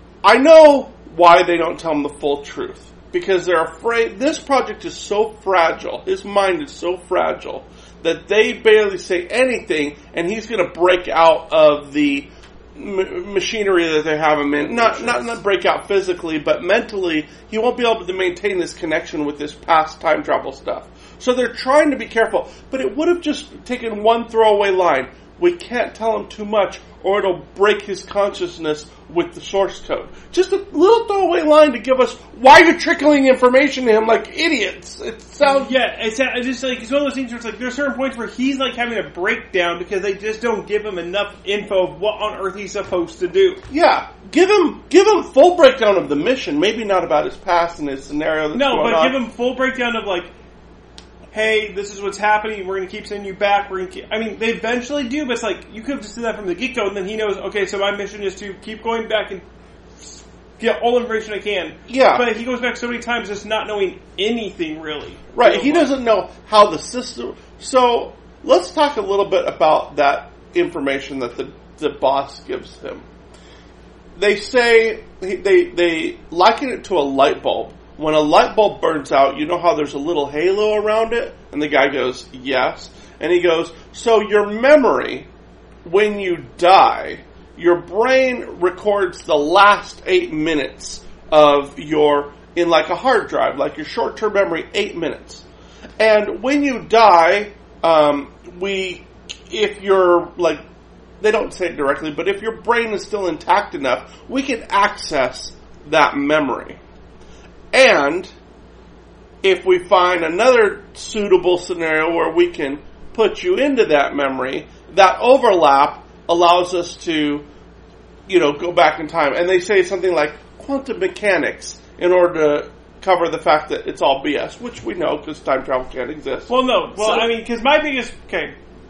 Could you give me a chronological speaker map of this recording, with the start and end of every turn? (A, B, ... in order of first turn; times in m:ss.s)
0:00.2-0:35.7 A
0:35.4-0:43.6 B
0:43.7-0:49.2 A
0:48.5-0:50.3 B
0:51.3-0:59.4 B
1:00.0-1:05.9 B
1:01.9-1:02.2 A
1:05.3-1:13.0 A
1:14.1-1:25.3 A
1:25.8-1:35.4 A
1:36.0-1:40.6 A
1:41.2-1:46.8 A
1:47.7-1:48.3 A
1:49.4-1:57.4 A
1:58.3-2:07.3 A
2:06.5-2:08.5 B